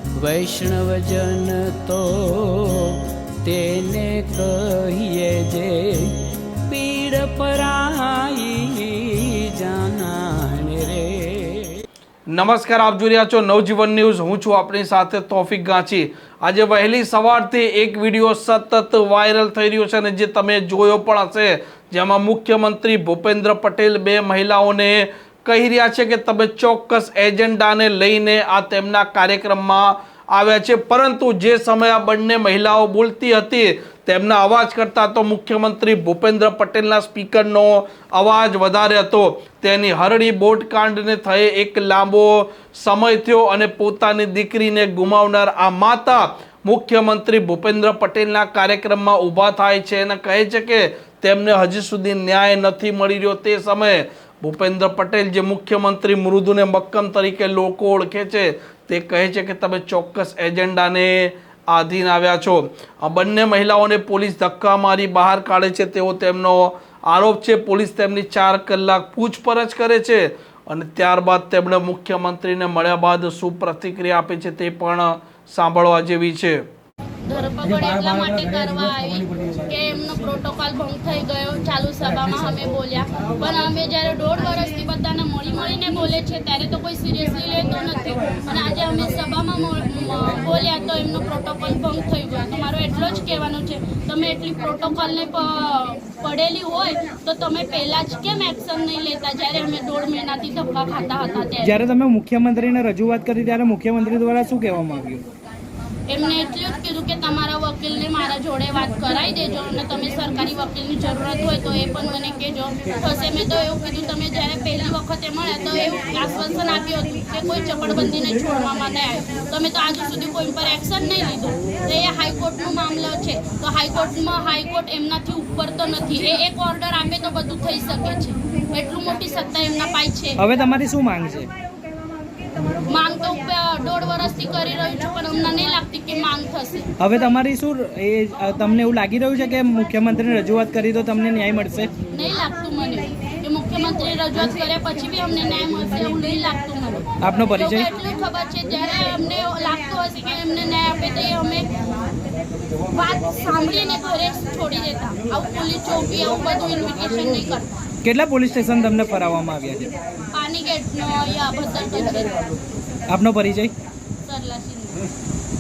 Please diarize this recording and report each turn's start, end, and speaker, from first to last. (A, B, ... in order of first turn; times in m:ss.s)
0:00.2-0:11.8 A
0:12.3-1:16.6 B
1:17.2-1:41.8 C
1:41.6-1:45.2 D
1:46.1-2:10.4 C
2:10.4-2:11.5 D
2:12.9-2:16.9 C
2:17.0-2:21.9 D
2:22.1-2:31.7 C
2:27.2-2:27.9 D
2:32.9-2:37.8 C
2:38.0-2:39.9 D
2:40.3-2:42.3 C
2:43.1-2:43.7 D
2:44.2-2:45.0 C